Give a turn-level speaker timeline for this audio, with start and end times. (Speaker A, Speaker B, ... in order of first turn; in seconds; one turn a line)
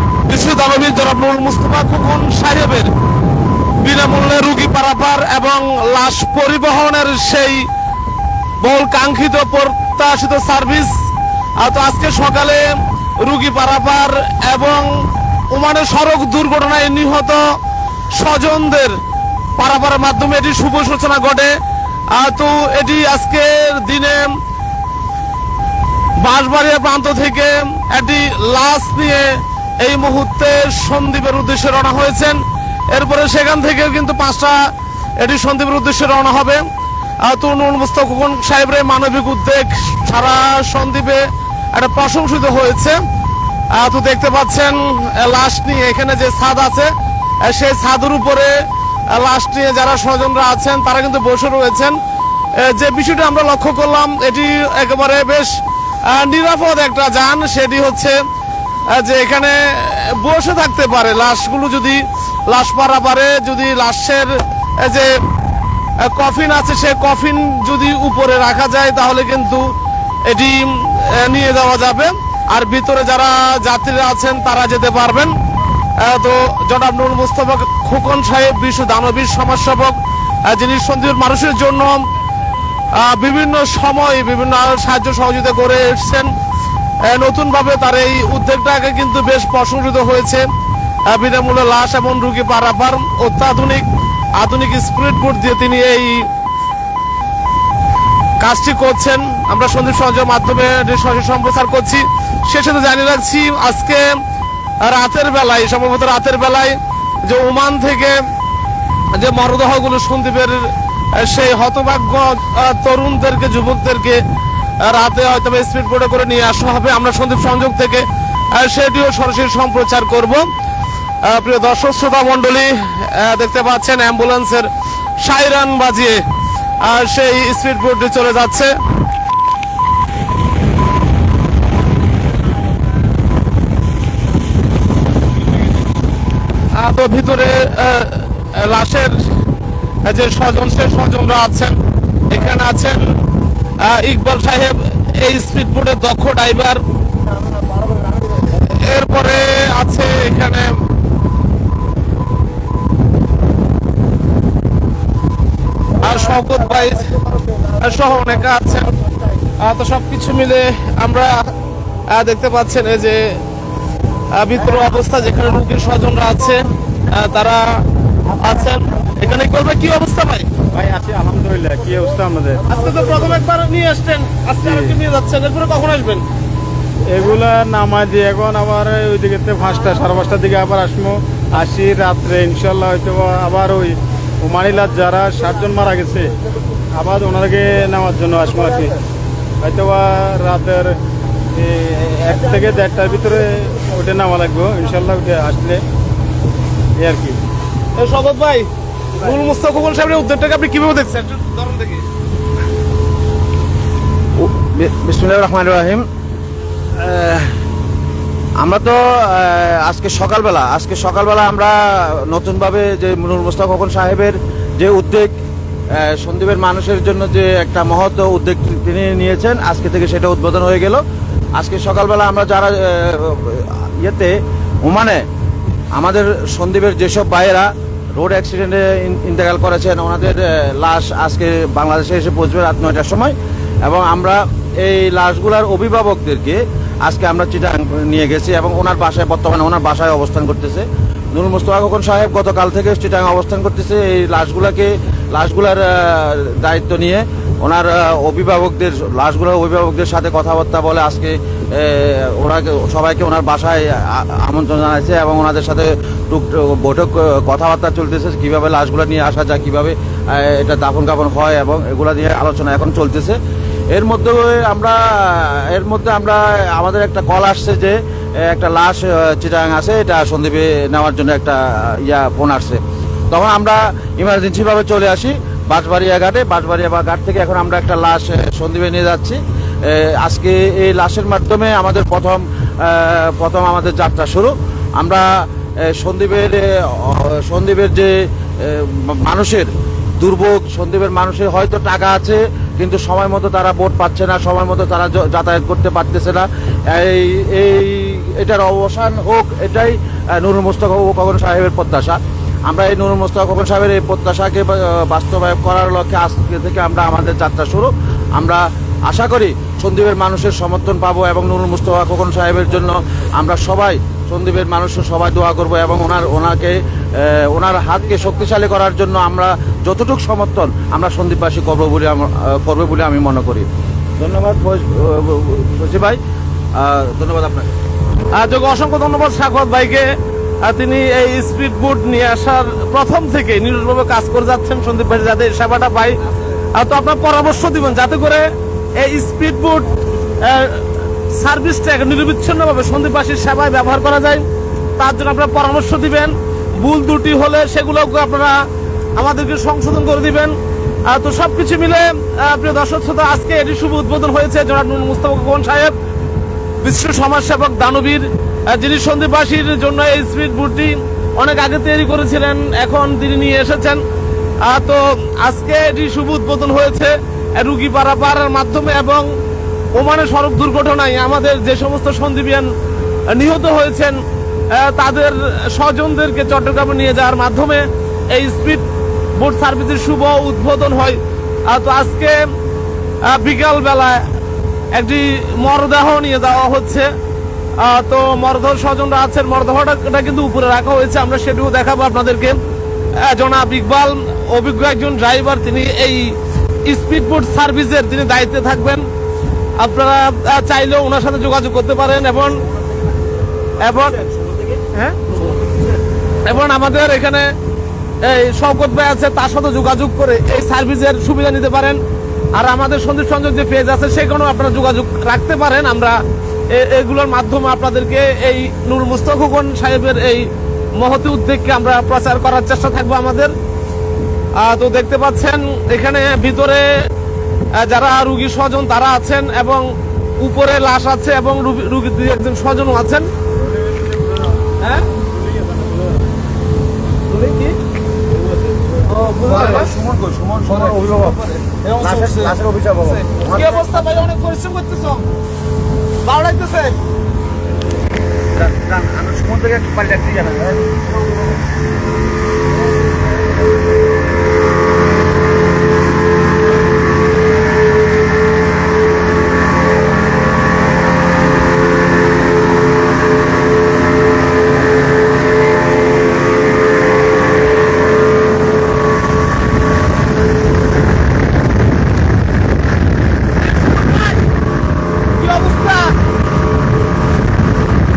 Speaker A: 0.3-2.9
Speaker A: 3.8-7.7
Speaker A: 8.6-10.9
Speaker A: 11.6-14.9
Speaker A: 15.5-17.4
Speaker A: 18.1-19.0
Speaker A: 19.6-21.6
Speaker A: 22.1-24.4
Speaker A: 26.2-34.6
Speaker A: 35.2-36.7
Speaker A: 37.2-43.0
Speaker A: 43.7-46.9
Speaker A: 47.4-48.5
Speaker A: 49.1-52.0
Speaker A: 52.6-58.2
Speaker A: 58.9-65.1
Speaker A: 66.0-69.7
Speaker A: 70.3-75.3
Speaker A: 76.0-82.0
Speaker A: 82.9-86.3
Speaker A: 87.0-90.5
Speaker A: 91.1-96.3
Speaker A: 98.4-104.1
Speaker A: 104.8-108.2
Speaker A: 109.1-114.2
Speaker A: 114.8-120.5
Speaker A: 121.2-126.2
Speaker A: 126.8-128.8
Speaker A: 136.8-139.2
Speaker A: 140.1-141.8
Speaker A: 142.3-143.1
Speaker A: 143.8-146.8
Speaker B: 147.2-148.5
Speaker A: 148.6-150.7
Speaker A: 156.0-157.1
Speaker B: 156.0-158.4
Speaker A: 157.8-159.0
Speaker A: 159.6-161.5
Speaker A: 162.1-163.4
Speaker A: 164.3-167.8
Speaker A: 168.4-170.5
Speaker C: 170.7-172.6
Speaker A: 172.7-176.2
Speaker B: 172.7-173.4
Speaker C: 174.6-175.0
Speaker C: 177.1-186.3
Speaker C: 186.9-189.0
Speaker B: 188.6-189.0
Speaker C: 189.6-191.0
Speaker C: 191.5-195.8
Speaker B: 192.6-193.8
Speaker C: 197.0-197.4
Speaker A: 197.9-202.1
Speaker B: 204.4-206.1
Speaker B: 207.0-207.5
Speaker B: 208.6-215.3
Speaker B: 215.9-221.0
Speaker B: 221.6-225.2
Speaker B: 225.9-263.4
Speaker B: 263.9-285.3
Speaker B: 285.9-323.7
Speaker B: 324.2-326.2
Speaker B: 326.8-327.7
Speaker A: 328.3-330.1
Speaker A: 330.6-344.4
Speaker A: 345.0-348.6
Speaker A: 349.2-350.6
Speaker A: 351.1-356.0
Speaker A: 356.8-364.0
Speaker A: 364.6-369.3
Speaker A: 369.9-372.7
Speaker A: 373.3-374.2
Speaker A: 374.7-378.9
Speaker A: 379.4-382.4
Speaker A: 383.2-384.3
Speaker A: 384.9-387.1
Speaker A: 387.8-392.6
Speaker A: 393.1-399.1
Speaker A: 399.8-402.6
Speaker B: 402.8-403.1
Speaker B: 403.8-406.0
Speaker A: 403.8-404.2
Speaker A: 404.9-405.2
Speaker A: 406.4-407.5
Speaker A: 408.2-412.0
Speaker A: 412.6-416.2
Speaker A: 416.7-420.5
Speaker A: 421.0-423.5
Speaker A: 424.6-426.9
Speaker A: 427.8-429.9
Speaker A: 430.4-433.3
Speaker C: 433.5-436.4
Speaker A: 434.8-435.1
Speaker A: 437.3-437.8
Speaker A: 439.0-439.9
Speaker B: 439.1-441.4
Speaker A: 440.7-442.5
Speaker B: 442.0-443.9
Speaker A: 443.1-445.3
Speaker A: 446.2-447.0
Speaker B: 448.5-451.4
Speaker A: 473.8-474.4
Speaker A: 475.4-476.2